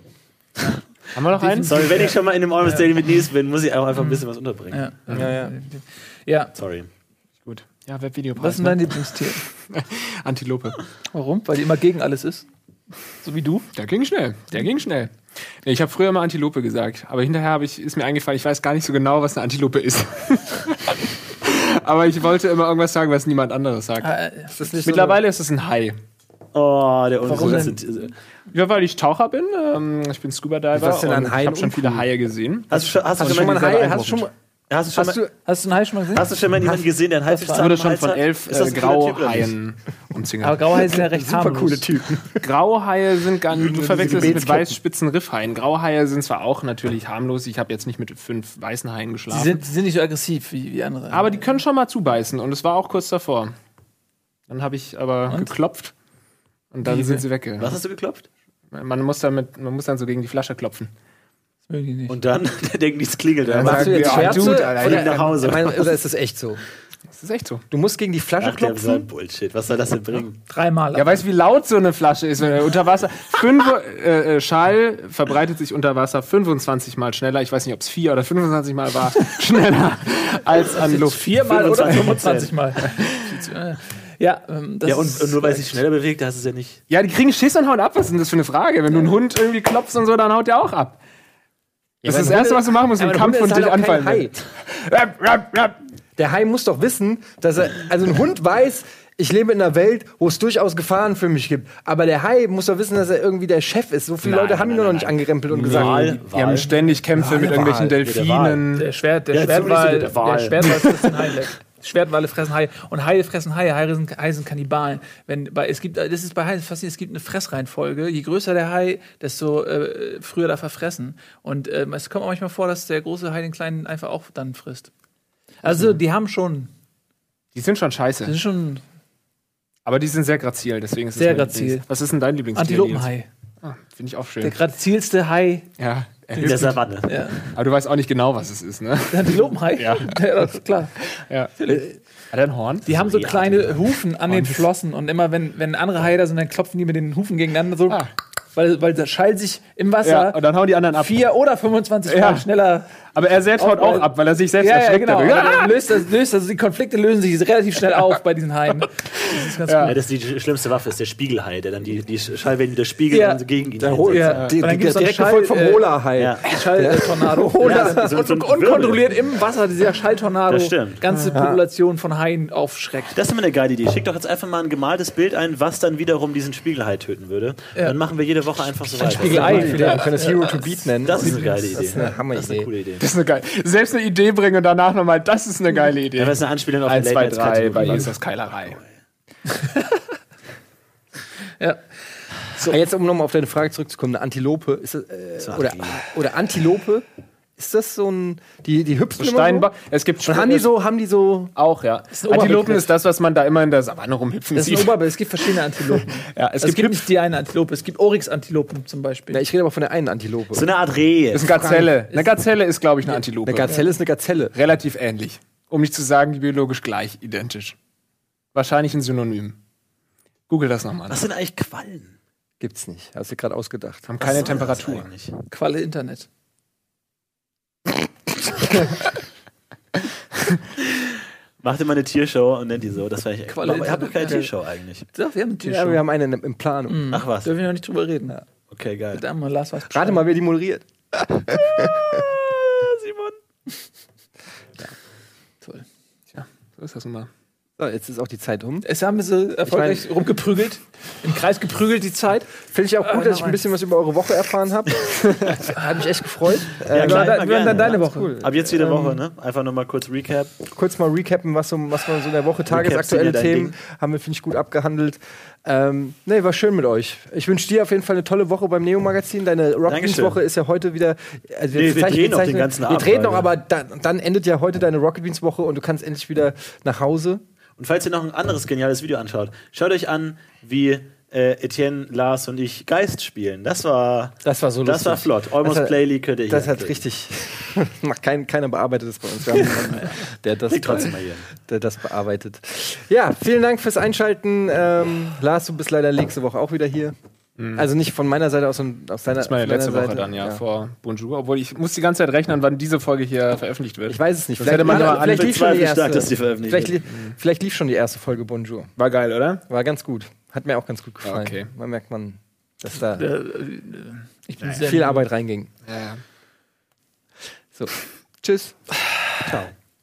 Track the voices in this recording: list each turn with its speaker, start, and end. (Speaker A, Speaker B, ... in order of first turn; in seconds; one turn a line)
Speaker A: 1.1-1.9
Speaker B: 1.4-2.9
Speaker C: 1.6-4.9
Speaker B: 4.0-6.5
Speaker D: 5.1-5.5
Speaker C: 6.5-6.9
Speaker A: 7.4-9.1
Speaker B: 8.4-9.4
Speaker A: 9.7-10.8
Speaker B: 11.1-12.4
Speaker B: 13.2-13.7
Speaker A: 13.8-24.1
Speaker B: 24.0-24.5
Speaker D: 24.5-25.2
Speaker A: 24.8-26.0
Speaker C: 26.5-28.1
Speaker B: 27.2-28.1
Speaker A: 27.4-27.6
Speaker A: 28.5-34.0
Speaker D: 30.7-32.1
Speaker C: 32.7-35.2
Speaker D: 33.2-34.3
Speaker D: 35.0-35.3
Speaker B: 35.5-36.3
Speaker C: 36.1-39.5
Speaker B: 37.3-37.6
Speaker A: 37.5-40.8
Speaker B: 40.4-41.9
Speaker D: 40.9-42.5
Speaker A: 42.4-49.6
Speaker D: 43.5-44.8
Speaker B: 49.3-51.4
Speaker A: 51.1-53.5
Speaker A: 54.5-55.9
Speaker B: 55.3-55.5
Speaker A: 56.7-57.8
Speaker B: 56.9-57.2
Speaker C: 57.6-58.3
Speaker A: 58.7-60.9
Speaker B: 61.7-62.2
Speaker C: 62.1-66.0
Speaker A: 63.5-65.3
Speaker D: 63.6-66.6
Speaker B: 63.7-64.7
Speaker A: 67.1-67.6
Speaker D: 67.7-69.1
Speaker C: 68.4-70.4
Speaker B: 70.5-71.2
Speaker A: 70.9-82.3
Speaker B: 80.8-85.8
Speaker C: 81.4-82.5
Speaker A: 82.8-83.2
Speaker C: 84.9-86.8
Speaker A: 86.9-91.0
Speaker A: 92.0-95.8
Speaker D: 92.0-94.5
Speaker D: 96.2-106.2
Speaker C: 104.2-106.7
Speaker A: 105.5-108.9
Speaker D: 107.2-108.0
Speaker C: 107.8-108.6
Speaker B: 108.8-124.9
Speaker C: 109.3-110.8
Speaker B: 125.6-126.7
Speaker A: 127.5-128.4
Speaker B: 128.2-128.8
Speaker A: 129.9-134.6
Speaker B: 131.2-131.8
Speaker B: 132.6-133.3
Speaker B: 134.4-135.7
Speaker A: 135.8-136.8
Speaker B: 136.3-137.5
Speaker C: 136.4-137.1
Speaker A: 137.5-140.2
Speaker B: 139.1-140.9
Speaker A: 141.1-142.9
Speaker B: 141.6-141.9
Speaker C: 142.9-143.8
Speaker B: 142.9-148.0
Speaker A: 144.3-144.7
Speaker B: 148.6-160.0
Speaker A: 150.0-151.2
Speaker A: 152.1-152.5
Speaker A: 153.1-155.8
Speaker A: 159.7-159.9
Speaker C: 159.8-164.5
Speaker B: 163.1-163.4
Speaker D: 163.8-168.1
Speaker B: 164.1-173.2
Speaker C: 166.2-166.5
Speaker C: 167.6-169.1
Speaker C: 170.5-171.0
Speaker D: 171.2-171.6
Speaker C: 173.1-179.8
Speaker B: 179.0-182.2
Speaker D: 179.1-182.7
Speaker A: 179.2-179.9
Speaker C: 181.0-183.1
Speaker A: 183.0-188.8
Speaker C: 186.2-188.8
Speaker B: 187.8-188.1
Speaker B: 189.5-190.0
Speaker D: 192.6-197.1
Speaker C: 195.4-196.1
Speaker D: 197.6-199.7
Speaker A: 199.2-200.7
Speaker D: 200.2-201.5
Speaker A: 201.6-205.1
Speaker B: 202.1-202.8
Speaker D: 202.3-202.8
Speaker B: 204.6-209.4
Speaker A: 205.9-207.1
Speaker D: 209.3-210.7
Speaker C: 210.5-211.7
Speaker A: 211.3-213.9
Speaker D: 211.5-212.0
Speaker D: 213.1-214.6
Speaker A: 214.5-217.8
Speaker A: 218.5-219.6
Speaker A: 220.5-221.2
Speaker C: 221.1-222.2
Speaker D: 222.6-224.1
Speaker A: 224.1-225.1
Speaker C: 224.2-225.4
Speaker B: 225.5-226.3
Speaker C: 230.8-235.1
Speaker B: 233.5-234.5
Speaker B: 235.1-236.0
Speaker D: 235.6-237.1
Speaker B: 236.9-238.4
Speaker C: 237.1-237.5
Speaker C: 238.7-239.2
Speaker B: 239.1-240.2
Speaker D: 239.9-242.2
Speaker C: 242.2-243.4
Speaker A: 246.3-247.3
Speaker D: 247.8-248.9
Speaker B: 248.8-253.6
Speaker D: 249.7-250.1
Speaker D: 252.7-259.2
Speaker A: 255.2-255.6
Speaker C: 256.9-260.6
Speaker B: 256.9-258.4
Speaker D: 260.7-277.4
Speaker C: 262.7-263.8
Speaker C: 269.9-270.4
Speaker C: 271.7-273.5
Speaker C: 277.8-287.0
Speaker D: 284.4-286.0
Speaker D: 286.5-297.1
Speaker C: 289.7-291.5
Speaker A: 297.6-297.9
Speaker D: 297.7-300.6
Speaker A: 299.4-305.6
Speaker D: 304.1-308.9
Speaker C: 304.7-307.0
Speaker A: 309.0-309.6
Speaker D: 309.7-313.3
Speaker A: 311.2-311.7
Speaker B: 313.1-315.2
Speaker D: 314.6-315.7
Speaker A: 315.9-316.2
Speaker D: 317.7-319.0
Speaker C: 319.4-319.7